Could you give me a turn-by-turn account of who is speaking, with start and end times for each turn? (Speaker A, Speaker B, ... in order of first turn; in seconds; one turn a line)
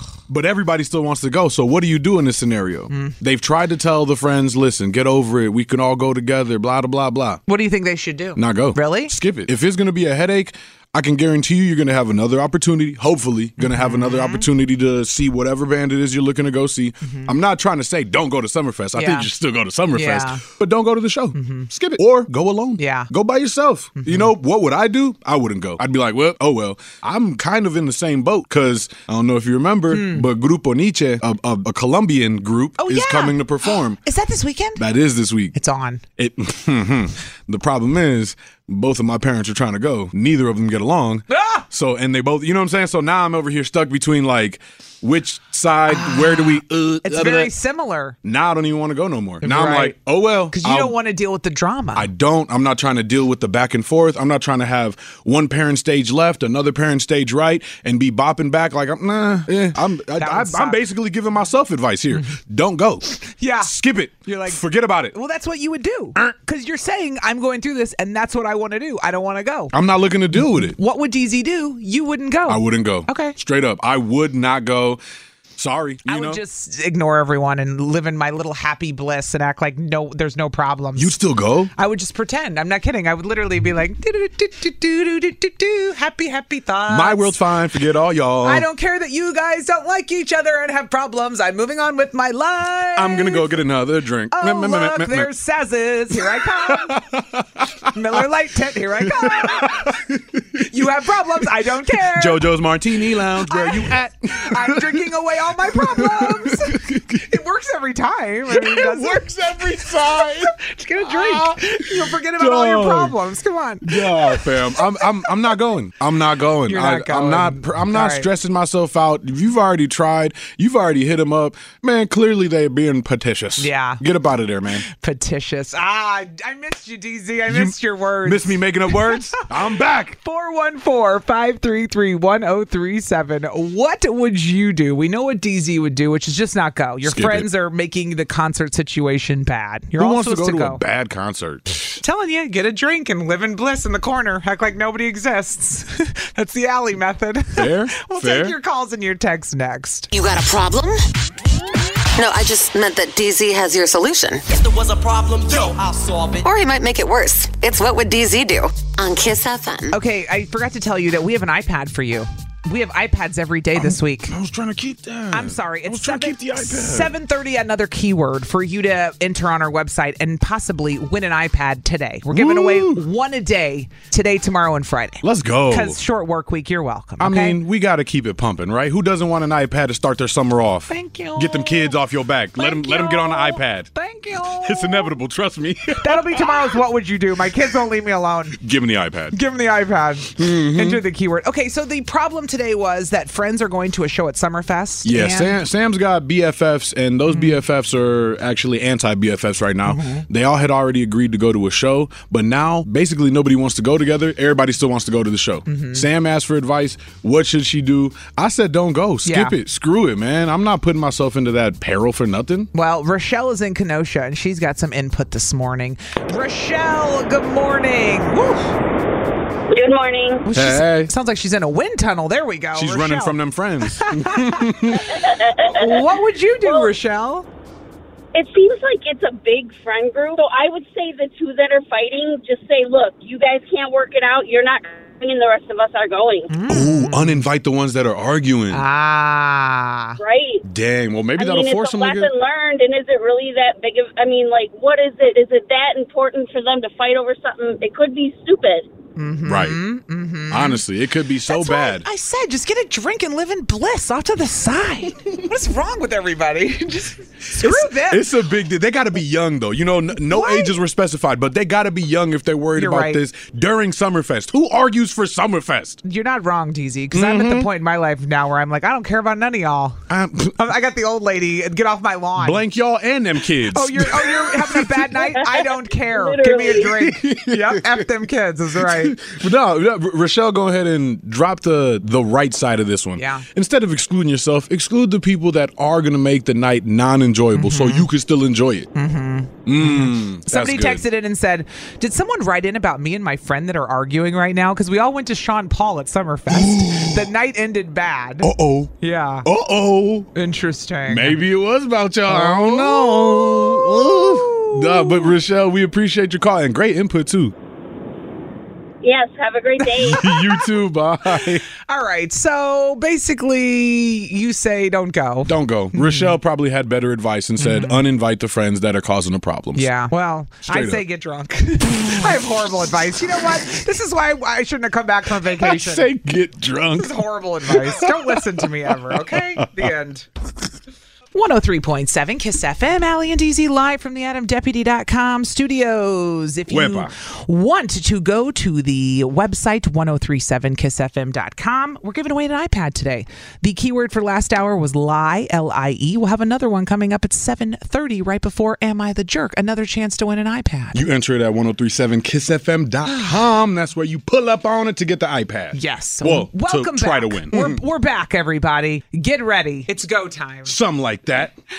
Speaker A: 0.3-7.4
Speaker B: 2.9-3.1
Speaker B: 7.5-9.1
Speaker A: 8.3-34.0
Speaker B: 13.6-14.5
Speaker B: 17.0-17.3
Speaker B: 18.9-19.3
Speaker B: 19.9-20.4
Speaker B: 21.3-21.7
Speaker B: 22.8-23.1
Speaker B: 24.0-24.3
Speaker B: 29.9-30.3
Speaker B: 32.8-34.8
Speaker A: 34.8-35.5
Speaker B: 35.5-36.0
Speaker A: 36.2-47.5
Speaker B: 41.3-41.6
Speaker B: 45.9-48.2
Speaker A: 48.2-50.9
Speaker B: 49.4-50.0
Speaker B: 50.5-52.1
Speaker A: 51.9-65.2
Speaker B: 60.2-60.8
Speaker B: 62.1-62.4
Speaker B: 63.3-63.7
Speaker B: 64.2-69.7
Speaker A: 69.7-70.8
Speaker B: 70.3-73.3
Speaker A: 72.5-75.0
Speaker A: 75.5-76.4
Speaker B: 76.0-81.1
Speaker A: 81.0-81.7
Speaker B: 81.8-87.4
Speaker A: 86.9-88.7
Speaker B: 88.4-93.6
Speaker A: 92.9-95.3
Speaker B: 94.3-97.0
Speaker A: 96.6-98.2
Speaker B: 97.9-99.9
Speaker A: 99.0-100.7
Speaker B: 100.7-102.5
Speaker A: 102.1-105.0
Speaker B: 103.2-115.5
Speaker A: 105.7-107.3
Speaker A: 108.5-113.2
Speaker A: 113.8-124.8
Speaker B: 116.7-118.3
Speaker B: 123.6-124.0
Speaker B: 124.8-129.4
Speaker A: 127.5-130.2
Speaker B: 130.2-140.8
Speaker A: 137.0-137.5
Speaker A: 140.0-142.0
Speaker B: 142.0-150.1
Speaker A: 147.6-148.6
Speaker C: 150.1-150.9
Speaker C: 152.2-154.4
Speaker D: 154.5-156.4
Speaker C: 156.4-159.9
Speaker B: 159.9-164.3
Speaker A: 163.8-167.1
Speaker B: 165.3-177.6
Speaker A: 172.3-173.0
Speaker A: 175.2-176.0
Speaker A: 177.2-183.9
Speaker B: 180.9-182.0
Speaker B: 182.6-185.1
Speaker A: 184.5-186.8
Speaker B: 186.0-188.6
Speaker A: 188.6-189.3
Speaker B: 189.3-195.6
Speaker A: 190.4-191.0
Speaker A: 195.0-212.7
Speaker B: 197.3-197.6
Speaker B: 199.8-200.2
Speaker B: 205.7-206.1
Speaker B: 209.2-209.6
Speaker B: 212.7-218.7
Speaker E: 219.7-220.4
Speaker B: 220.4-227.5
Speaker A: 220.5-221.1
Speaker A: 222.7-225.2
Speaker E: 225.2-225.9
Speaker E: 228.3-236.5
Speaker B: 236.5-237.4
Speaker A: 236.7-238.8
Speaker B: 238.7-240.2
Speaker E: 240.2-240.6
Speaker A: 240.6-242.3
Speaker E: 241.4-248.9
Speaker B: 249.2-250.8
Speaker A: 249.4-249.8
Speaker A: 250.5-252.1
Speaker B: 251.5-258.3
Speaker A: 257.5-266.0
Speaker B: 260.3-260.8
Speaker B: 262.7-263.2
Speaker B: 266.0-270.0
Speaker A: 267.1-267.7
Speaker A: 270.1-270.5
Speaker B: 270.6-272.6
Speaker A: 272.4-275.2
Speaker B: 273.7-279.2
Speaker E: 275.4-276.9
Speaker A: 276.9-278.1
Speaker A: 278.8-288.9
Speaker B: 283.2-283.5
Speaker B: 287.5-288.1
Speaker B: 288.9-299.5
Speaker A: 289.6-291.0
Speaker A: 296.5-297.3
Speaker A: 298.4-298.9
Speaker A: 299.4-300.3
Speaker B: 300.3-301.4
Speaker A: 301.1-307.5
Speaker B: 302.3-305.4
Speaker E: 309.0-310.3
Speaker B: 309.8-310.7
Speaker A: 310.0-311.6
Speaker B: 311.3-316.4
Speaker A: 315.4-319.9
Speaker B: 317.6-318.0
Speaker B: 319.7-326.1
Speaker A: 320.6-321.0
Speaker A: 322.0-322.4
Speaker A: 325.5-328.5
Speaker B: 327.0-330.2
Speaker A: 329.1-329.9
Speaker B: 331.3-351.0
Speaker A: 336.7-337.1
Speaker A: 350.9-357.8
Speaker B: 353.1-353.4
Speaker B: 355.7-360.8
Speaker A: 360.6-361.5